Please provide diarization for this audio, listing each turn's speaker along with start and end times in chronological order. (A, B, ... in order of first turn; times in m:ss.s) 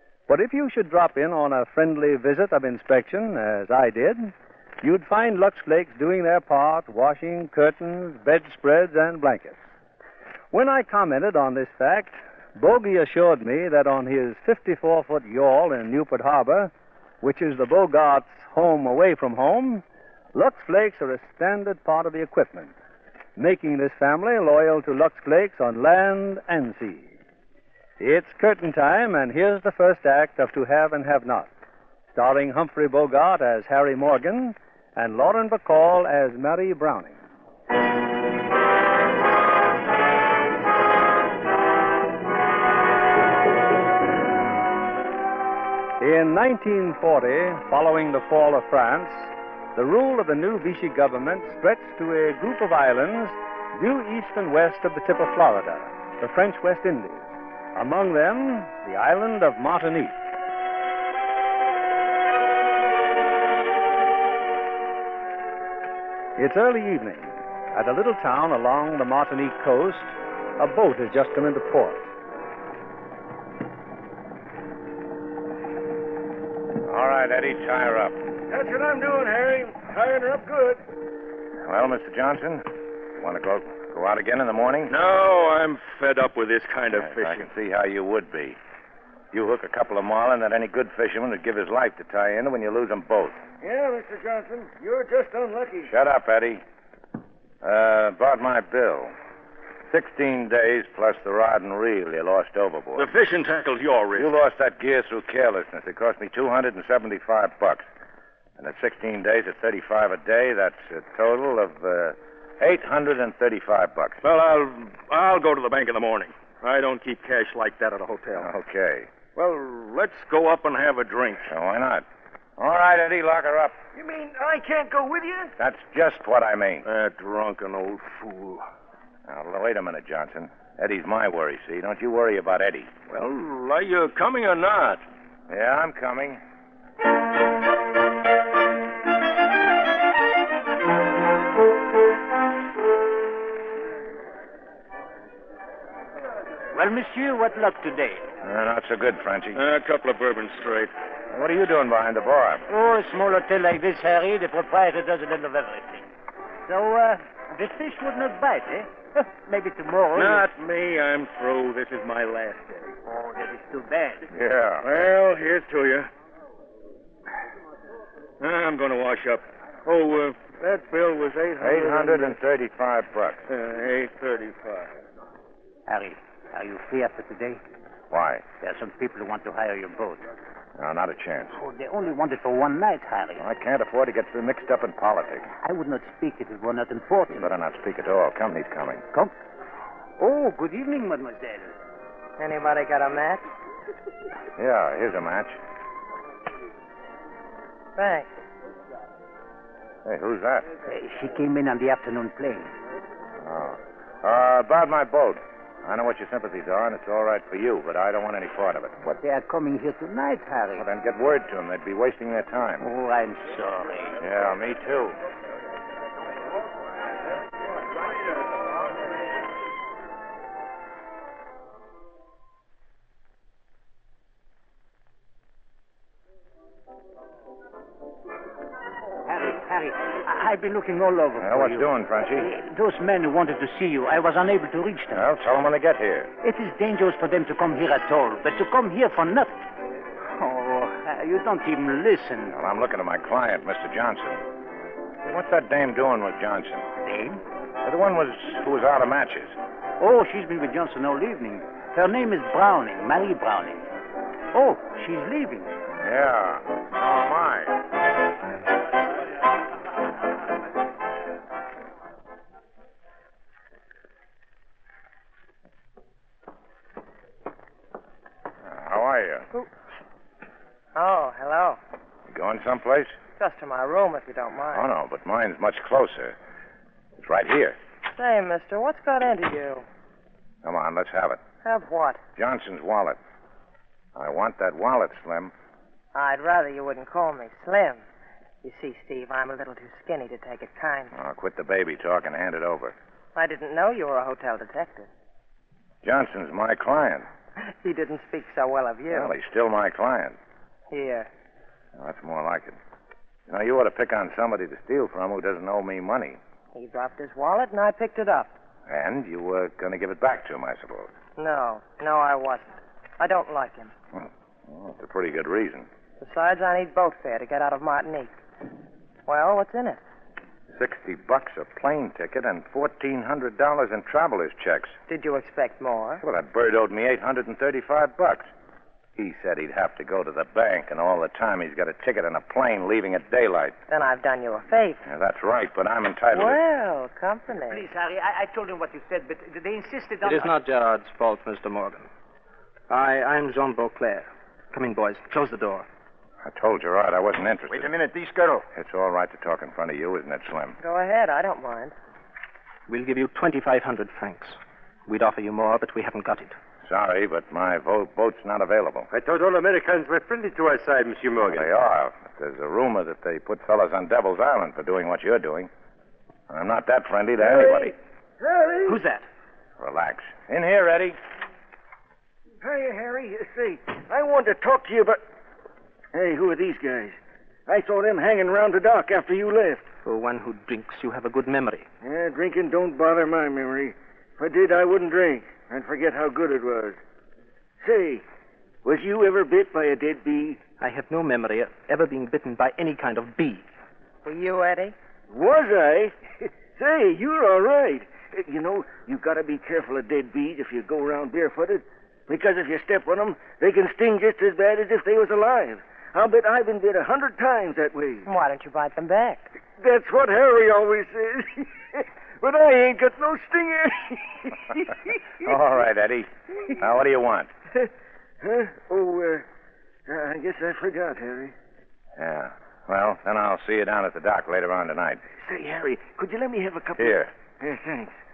0:00.3-0:09.6 A
0:10.5-0:19.8 A
0:20.3-0:22.7 A
0:23.4-0:27.1 A
0:28.0-0:31.5 A
0:32.1-0:37.2 A
0:46.0-1:00.2 A
1:06.4-1:12.1 A
1:16.8-1:18.2 B
1:18.5-1:20.8 C
1:21.6-1:24.9 B
1:24.9-1:27.5 D
1:27.0-1:28.6 B
1:29.3-1:33.4 B
1:33.6-1:35.9 C
1:35.8-1:36.6 B
1:37.6-1:39.1 B
1:39.9-1:43.1 B
1:42.9-1:44.4 D
1:44.1-1:47.9 B
1:48.6-1:54.2 B
1:54.2-1:58.5 D
1:58.4-1:59.1 B
1:59.3-2:01.5 D
2:01.5-2:02.0 B
2:02.6-2:03.8 B
2:03.9-2:05.5 C
2:05.6-2:06.8 B
2:06.8-2:08.6 D
2:09.2-2:12.9 B
2:13.1-2:15.0 D
2:15.5-2:16.4 B
2:26.7-2:28.3 E
2:28.4-2:29.6 B
2:29.5-2:30.9 D
2:31.3-2:32.6 B
2:32.7-2:36.1 E
2:36.7-2:40.5 E
2:40.1-2:43.0 D
2:43.1-2:44.2 E
2:44.3-2:44.9 B
2:44.8-2:46.1 D
2:48.4-2:52.4 D
2:51.6-2:53.4 B
2:53.5-2:54.9 D
2:55.9-2:57.6 E
2:58.1-2:58.4 B
2:58.6-3:00.2 E
3:00.8-3:01.6 B
3:01.5-3:03.4 E
3:03.4-3:05.5 B
3:05.6-3:07.6 E
3:07.3-3:09.0 B
3:10.2-3:11.8 E
3:12.4-3:13.4 F
3:14.6-3:15.6 B
3:18.0-3:18.3 F
3:20.0-3:20.7 B
3:20.8-3:22.7 E
3:23.4-3:29.1 B
3:29.0-3:30.9 E
3:30.8-3:32.8 B
3:32.8-3:34.2 E
3:34.2-3:35.2 B
3:49.2-3:55.3 E
3:51.4-3:52.5 B
3:55.1-3:56.3 B
3:56.4-3:59.6 E
4:00.3-4:02.5 E
4:02.5-4:04.4 B
4:05.2-4:06.9 B
4:07.0-4:07.4 E
4:07.8-4:09.6 B
4:10.0-4:13.8 E
4:14.5-4:15.7 E
4:16.0-4:17.7 B
4:28.6-4:29.5 B
4:30.9-4:31.8 F
4:32.3-4:33.2 B
4:33.4-4:34.9 F
4:34.7-4:36.4 B
4:37.2-4:37.8 B
4:38.1-4:39.8 F
4:40.6-4:41.4 B
4:41.6-4:42.2 F
4:42.4-4:43.2 B
4:44.1-4:45.5 B
4:46.1-4:48.0 F
4:48.6-4:51.1 F
4:51.1-4:53.0 B
4:53.3-4:55.1 F
4:56.0-4:57.3 B
4:57.6-4:59.3 F
4:59.1-5:00.4 B
5:00.9-5:01.3 F
5:02.0-5:02.8 B
5:03.5-5:06.4 B
5:06.7-5:08.5 F
5:08.9-5:11.1 B
5:11.4-5:13.9 F
5:14.1-5:15.9 B
5:16.2-5:18.3 F
5:19.2-5:20.0 F
5:20.7-5:25.0 B
5:25.1-5:26.2 F
5:26.2-5:28.5 B
5:29.2-5:33.8 B
5:33.9-5:35.0 F
5:35.0-5:36.6 B
5:36.3-5:37.8 F
5:37.7-5:40.6 E
5:40.2-5:42.1 G
5:42.9-5:45.9 G
5:46.4-5:47.9 B
5:47.7-5:48.6 E
5:48.7-5:50.8 B
5:50.8-5:51.9 F
5:52.9-5:56.6 G
5:56.8-5:59.1 B
5:59.1-6:01.6 D
6:01.4-6:05.7 B
6:06.5-6:08.0 B
6:08.4-6:09.0 C
6:08.9-6:09.2 D
6:09.8-6:11.2 B
6:12.6-6:15.2 C
6:16.1-6:19.9 C
6:20.0-6:21.9 G
6:22.0-6:27.0 C
6:27.8-6:28.2 C
6:28.8-6:30.6 C
6:30.8-6:33.7 G
6:34.2-6:34.9 F
6:35.3-6:48.3 C
6:48.2-6:49.5 F
6:49.8-6:55.2 C
6:55.4-6:57.5 B
6:58.4-6:59.4 C
7:00.0-7:01.5 C
7:02.2-7:05.2 B
7:05.4-7:08.1 C
7:07.0-7:07.3 B